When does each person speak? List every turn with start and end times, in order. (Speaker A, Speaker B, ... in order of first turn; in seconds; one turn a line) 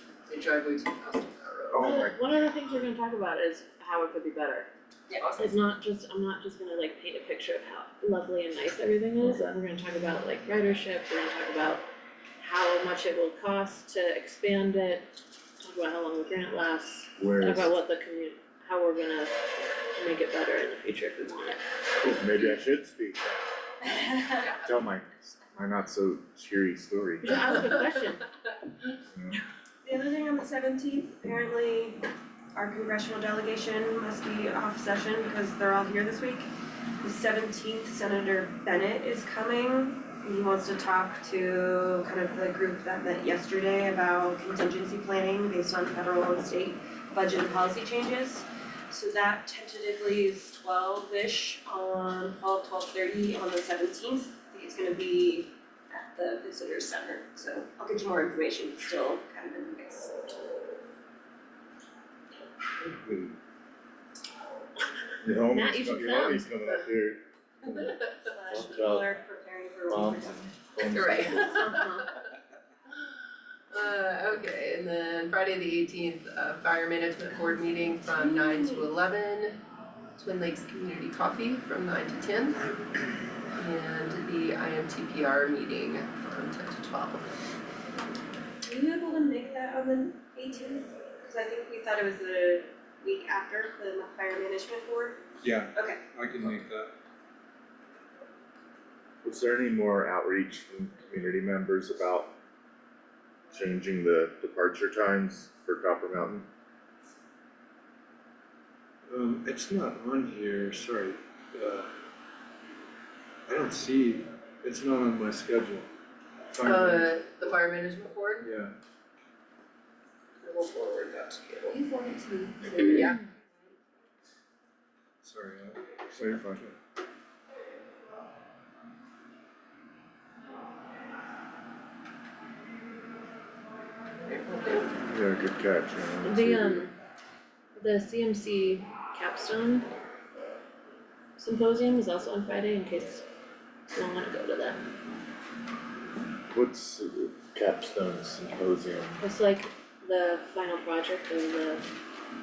Speaker A: 0.3-1.9
Speaker B: 1.7-2.2
Speaker C: 1.8-4.7
Speaker A: 5.2-5.5
Speaker C: 5.4-11.8
Speaker B: 9.2-9.6
Speaker C: 12.4-21.6
Speaker B: 17.2-17.8
Speaker B: 22.0-23.5
Speaker D: 23.9-24.4
Speaker A: 24.4-24.7
Speaker B: 24.6-27.4
Speaker C: 27.2-28.3
Speaker B: 29.1-29.4
Speaker D: 29.8-32.0
Speaker D: 32.5-36.5
Speaker D: 37.0-60.4
Speaker B: 63.0-63.3
Speaker B: 65.2-67.9
Speaker C: 65.5-66.9
Speaker D: 68.2-70.6
Speaker B: 68.5-69.1
Speaker B: 69.9-71.6
Speaker A: 70.8-71.8
Speaker C: 71.2-72.1
Speaker A: 73.7-79.6
Speaker D: 78.0-78.9
Speaker A: 80.2-82.7
Speaker A: 83.5-87.3
Speaker D: 88.6-95.2
Speaker E: 95.4-96.9
Speaker D: 95.7-96.0
Speaker B: 99.2-102.3
Speaker B: 103.5-106.5
Speaker E: 109.1-111.9
Speaker E: 113.5-115.9
Speaker E: 116.5-117.1
Speaker A: 116.7-118.5
Speaker E: 118.5-118.7
Speaker A: 120.4-121.8
Speaker D: 121.7-123.8
Speaker A: 122.6-123.2
Speaker E: 125.2-126.7
Speaker B: 126.2-126.6
Speaker A: 134.3-134.8
Speaker B: 135.0-136.8
Speaker C: 136.2-136.9
Speaker C: 137.8-139.9
Speaker C: 141.4-143.2
Speaker C: 143.9-144.8
Speaker B: 146.5-149.2
Speaker C: 149.2-151.9